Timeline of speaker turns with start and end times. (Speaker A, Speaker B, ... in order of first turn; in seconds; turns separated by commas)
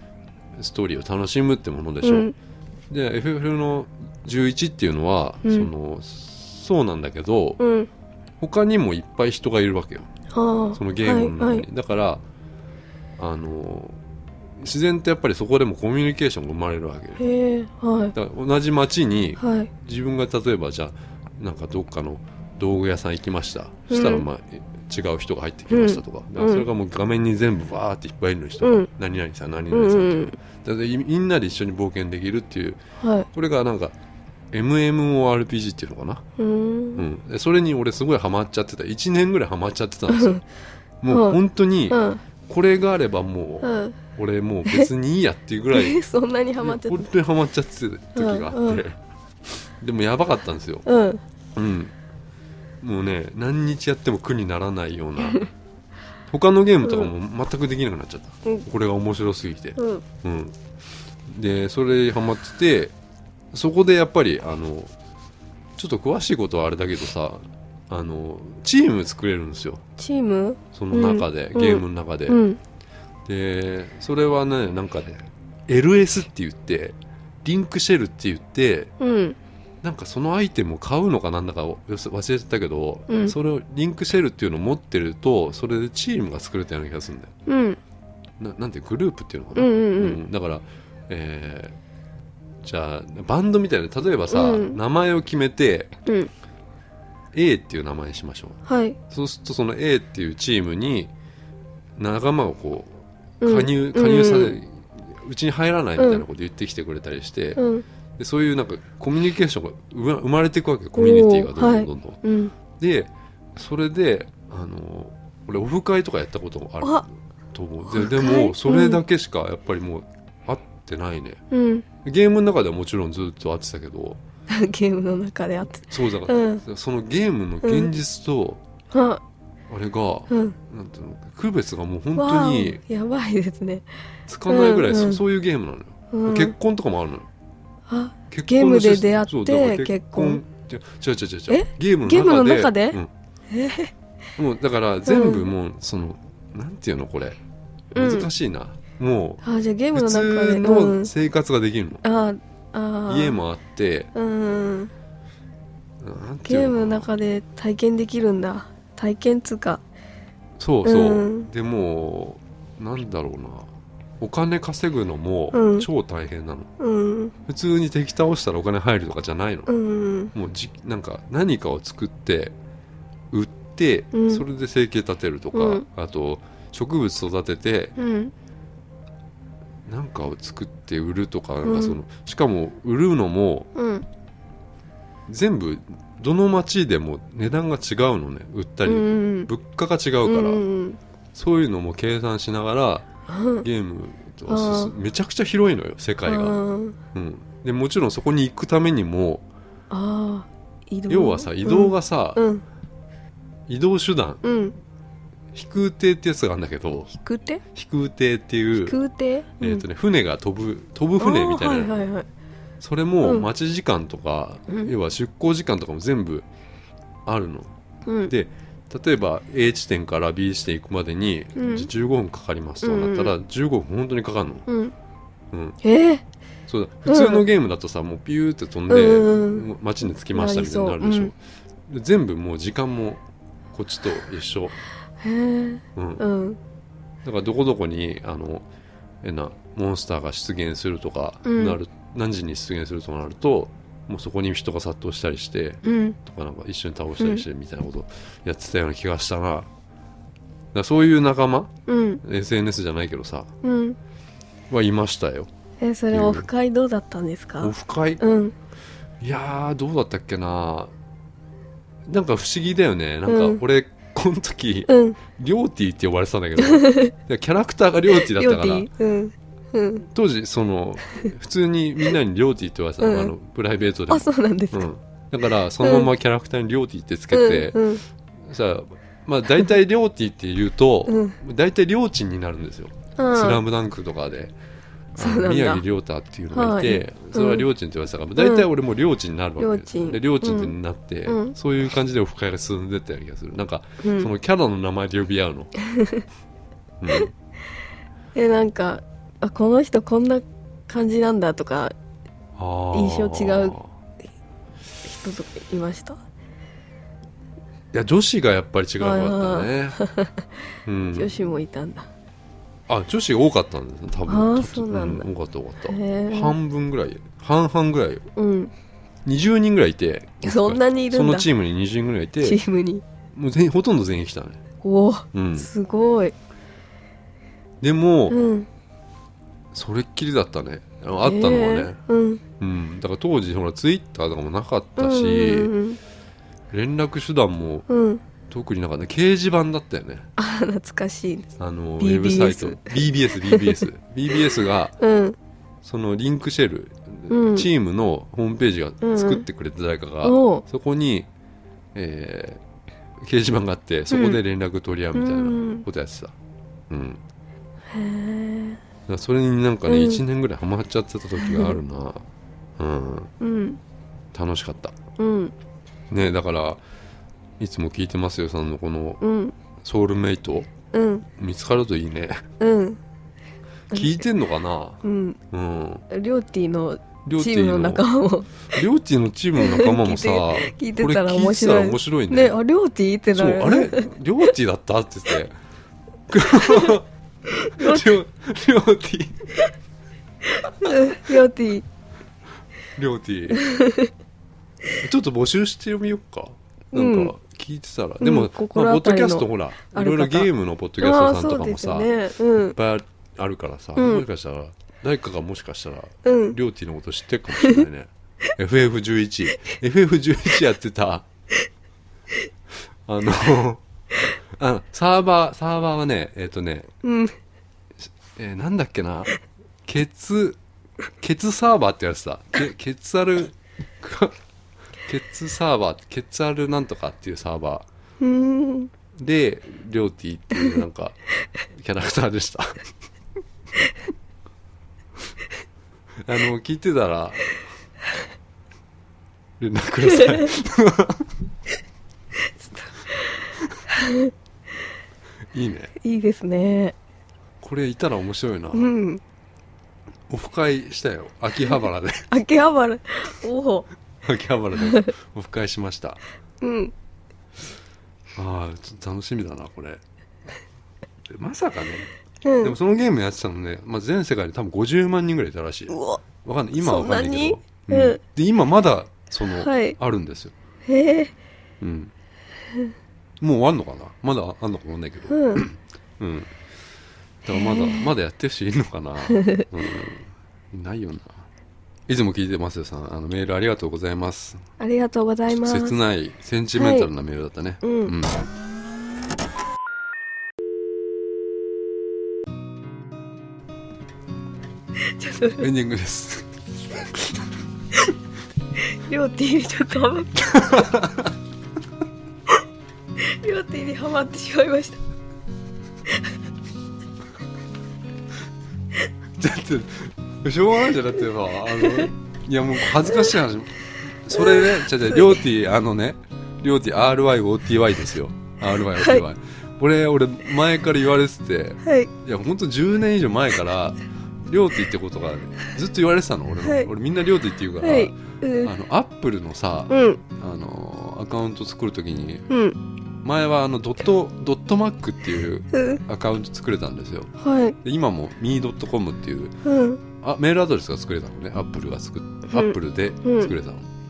Speaker A: 0.6-2.3, Speaker B: 2.0-2.3, Speaker A: 2.9-7.6, Speaker B: 5.4-5.7, Speaker B: 7.6-7.9, Speaker A: 8.4-10.1, Speaker B: 10.3-11.6, Speaker A: 10.8-12.2, Speaker A: 13.2-14.0, Speaker A: 14.6-17.2, Speaker B: 17.2-18.1, Speaker A: 18.1-32.8, Speaker B: 19.4-19.7, Speaker B: 23.9-24.3, Speaker B: 25.7-26.6, Speaker B: 28.6-28.9, Speaker B: 29.7-30.4, Speaker B: 33.0-33.3, Speaker A: 33.3-33.9, Speaker A: 34.5-36.2, Speaker B: 36.4-37.0, Speaker A: 37.0-40.4, Speaker B: 40.1-40.4, Speaker A: 41.0-46.0, Speaker B: 41.1-41.4, Speaker B: 41.9-42.2, Speaker B: 43.6-44.0, Speaker B: 45.7-47.1, Speaker A: 46.6-49.0, Speaker B: 48.1-48.8, Speaker A: 49.6-50.9, Speaker B: 50.9-51.2, Speaker A: 51.6-51.9, Speaker A: 52.8-55.5, Speaker A: 56.3-60.6, Speaker B: 56.8-57.1, Speaker B: 59.8-60.0, Speaker A: 61.3-62.9, Speaker A: 63.5-64.9, Speaker A: 65.8-69.8, Speaker B: 70.0-72.6, Speaker A: 70.7-72.4, Speaker A: 73.3-78.9, Speaker B: 79.0-79.4, Speaker A: 79.8-87.3, Speaker B: 83.1-83.3, Speaker B: 87.5-87.8, Speaker A: 88.4-91.8, Speaker B: 89.5-90.2, Speaker A: 92.6-95.9, Speaker B: 94.3-94.8, Speaker B: 96.0-96.3, Speaker A: 97.3-101.1, Speaker B: 98.7-99.0, Speaker A: 102.0-107.6, Speaker B: 103.4-104.6, Speaker B: 106.0-106.2, Speaker B: 107.6-107.8, Speaker A: 108.2-112.2, Speaker B: 111.0-112.5, Speaker A: 112.8-121.4, Speaker B: 117.9-119.0, Speaker B: 121.5-121.9, Speaker A: 122.0-124.2, Speaker B: 124.5-126.6, Speaker A: 125.9-128.6, Speaker B: 127.6-127.9, Speaker B: 128.9-129.2, Speaker A: 129.7-132.8, Speaker B: 130.3-130.6, Speaker B: 132.1-133.9, Speaker A: 134.3-137.3, Speaker B: 134.5-135.2, Speaker B: 136.1-136.6, Speaker B: 137.9-140.4, Speaker A: 138.3-143.1, Speaker B: 141.5-143.9, Speaker A: 144.4-147.4, Speaker B: 145.1-145.5, Speaker A: 147.9-149.4, Speaker B: 147.9-148.3, Speaker B: 149.4-151.1, Speaker A: 149.9-152.0, Speaker B: 152.0-153.4, Speaker A: 153.1-154.1, Speaker B: 154.1-154.9, Speaker A: 156.0-157.1, Speaker B: 156.5-159.8, Speaker A: 160.6-166.7, Speaker B: 160.8-161.5, Speaker B: 165.5-165.9, Speaker B: 166.8-167.3, Speaker A: 167.4-169.7, Speaker B: 169.7-170.3, Speaker A: 170.3-172.6, Speaker A: 173.3-177.9, Speaker B: 174.1-174.4, Speaker B: 175.5-175.8, Speaker B: 178.0-178.3, Speaker A: 179.9-183.7, Speaker B: 181.6-182.0, Speaker B: 183.7-184.1, Speaker A: 185.3-190.6, Speaker B: 188.9-189.5, Speaker B: 190.2-191.0, Speaker A: 191.3-193.1, Speaker B: 193.3-193.7, Speaker A: 193.6-196.6, Speaker B: 194.5-194.9, Speaker B: 196.2-197.0, Speaker A: 197.1-199.4, Speaker B: 199.9-202.6, Speaker A: 201.1-202.4, Speaker A: 203.7-204.4, Speaker B: 204.4-204.7, Speaker A: 205.5-207.1, Speaker B: 207.1-207.6, Speaker A: 207.7-208.9, Speaker B: 208.8-209.8, Speaker A: 209.6-212.0, Speaker B: 211.2-212.3, Speaker A: 212.8-216.5, Speaker B: 213.2-213.5, Speaker B: 214.7-214.9, Speaker A: 217.3-217.7, Speaker B: 218.1-218.3, Speaker A: 218.3-224.7, Speaker B: 221.6-221.9, Speaker B: 222.8-223.3, Speaker B: 224.7-224.9, Speaker A: 225.5-225.8, Speaker B: 225.8-226.2, Speaker A: 226.7-233.2, Speaker B: 227.1-227.4, Speaker B: 228.9-229.7, Speaker B: 230.3-231.3, Speaker A: 233.7-234.8, Speaker B: 235.2-236.6, Speaker A: 235.9-236.2, Speaker A: 237.2-238.7, Speaker A: 239.2-249.7, Speaker B: 241.4-241.8, Speaker B: 245.8-246.2, Speaker B: 247.2-247.4, Speaker A: 250.7-253.5, Speaker B: 251.9-252.2, Speaker B: 253.6-254.0, Speaker A: 254.7-255.5, Speaker B: 255.8-258.6, Speaker A: 256.1-256.5, Speaker A: 257.6-258.2, Speaker A: 259.2-260.9, Speaker A: 262.1-268.9, Speaker B: 263.3-263.6, Speaker B: 264.9-265.2, Speaker B: 266.6-267.1, Speaker B: 268.1-270.1, Speaker A: 270.1-277.9, Speaker B: 273.0-273.3, Speaker B: 274.1-274.9, Speaker B: 275.8-276.1, Speaker B: 277.3-278.0, Speaker A: 278.4-284.5, Speaker B: 281.1-281.4, Speaker B: 283.2-283.6, Speaker B: 285.2-285.8, Speaker A: 285.2-295.7, Speaker B: 286.5-287.7, Speaker B: 288.4-288.7, Speaker B: 289.6-290.8, Speaker B: 291.3-291.6, Speaker B: 294.0-294.3, Speaker B: 295.9-296.2, Speaker A: 297.0-297.3, Speaker B: 298.3-301.9, Speaker A: 302.6-303.9, Speaker B: 302.9-303.8, Speaker B: 305.0-306.2, Speaker A: 307.9-310.0, Speaker B: 309.0-310.5, Speaker A: 310.9-311.3, Speaker B: 311.1-312.1, Speaker A: 312.9-318.3, Speaker B: 314.3-315.3, Speaker B: 315.9-316.6, Speaker B: 318.4-318.7, Speaker A: 319.3-322.6, Speaker B: 320.4-321.5, Speaker B: 322.4-323.0, Speaker A: 323.3-324.6, Speaker B: 324.8-326.4, Speaker A: 325.3-325.7, Speaker A: 327.8-328.4, Speaker B: 328.3-328.7, Speaker A: 329.7-332.0, Speaker B: 331.2-332.4, Speaker A: 332.6-335.7, Speaker B: 335.0-336.0, Speaker A: 336.7-337.9, Speaker B: 337.9-338.2, Speaker A: 338.5-340.3, Speaker B: 340.4-341.5, Speaker A: 341.6-344.9, Speaker B: 342.0-345.4, Speaker A: 345.8-351.3, Speaker B: 347.3-347.7, Speaker B: 349.0-349.4, Speaker B: 350.2-350.6, Speaker A: 351.9-352.6, Speaker A: 353.2-356.3, Speaker B: 354.1-354.4, Speaker B: 355.1-355.9, Speaker A: 356.9-357.2, Speaker B: 357.9-358.8, Speaker A: 359.1-362.2, Speaker B: 359.9-360.2, Speaker B: 361.4-361.8, Speaker A: 362.8-363.3, Speaker B: 363.4-363.8, Speaker A: 364.3-364.9, Speaker B: 365.2-365.5, Speaker A: 366.1-366.8, Speaker A: 367.6-369.2, Speaker B: 369.2-369.6, Speaker A: 369.8-370.7, Speaker B: 370.9-371.3, Speaker A: 371.4-372.5, Speaker B: 372.6-373.0, Speaker A: 373.9-376.1, Speaker B: 373.9-374.2, Speaker B: 375.0-375.4, Speaker B: 376.1-378.7, Speaker A: 377.2-378.1, Speaker A: 378.7-382.6, Speaker B: 379.6-384.1, Speaker A: 383.3-385.6, Speaker A: 386.3-387.1, Speaker B: 386.5-386.9, Speaker B: 387.6-388.1, Speaker A: 387.6-389.6, Speaker B: 390.4-391.9, Speaker A: 392.9-393.7, Speaker B: 393.5-394.1, Speaker A: 395.0-402.1, Speaker B: 396.9-397.3, Speaker B: 398.2-402.8, Speaker A: 402.7-411.3, Speaker B: 403.9-404.3, Speaker B: 406.2-406.6, Speaker A: 413.1-413.8, Speaker A: 414.6-416.9, Speaker B: 417.0-417.4, Speaker A: 418.4-419.3, Speaker A: 419.9-420.6, Speaker A: 421.2-424.4, Speaker A: 425.1-427.9, Speaker B: 428.2-428.9, Speaker A: 429.2-431.2, Speaker A: 431.7-432.9, Speaker A: 436.2-437.5, Speaker A: 439.6-441.3, Speaker B: 440.1-440.5, Speaker B: 442.4-444.3, Speaker A: 445.5-445.9, Speaker B: 446.0-446.9, Speaker A: 447.6-448.9, Speaker B: 448.7-449.2, Speaker A: 450.3-452.4, Speaker B: 452.3-453.9, Speaker A: 454.2-456.2, Speaker B: 454.7-455.1, Speaker B: 456.6-456.9, Speaker A: 458.4-460.0, Speaker A: 461.3-462.1, Speaker B: 462.4-462.8, Speaker A: 462.6-470.5, Speaker B: 465.9-466.2, Speaker B: 466.8-468.2, Speaker B: 469.5-470.0, Speaker B: 470.9-471.3, Speaker A: 471.8-472.1, Speaker A: 473.4-476.6, Speaker B: 475.3-475.6, Speaker A: 477.4-481.4, Speaker B: 477.5-478.1, Speaker B: 479.3-479.6, Speaker A: 482.1-484.6, Speaker B: 484.8-485.9, Speaker A: 485.5-488.4, Speaker B: 486.8-487.1, Speaker B: 487.8-488.1, Speaker B: 495.0-495.7, Speaker A: 495.6-497.2, Speaker B: 498.8-500.3, Speaker A: 500.4-501.3, Speaker B: 503.2-505.0, Speaker A: 509.4-532.5, Speaker B: 511.7-512.1, Speaker B: 513.0-513.3, Speaker B: 514.3-515.4, Speaker B: 518.7-519.2, Speaker B: 521.8-522.1, Speaker B: 526.6-526.9, Speaker B: 527.8-528.7, Speaker B: 529.9-530.2, Speaker B: 532.5-532.8, Speaker A: 533.2-537.3, Speaker B: 535.7-536.0, Speaker B: 537.4-537.8, Speaker A: 537.8-539.5, Speaker B: 539.6-540.0, Speaker A: 540.2-543.9, Speaker B: 542.5-543.5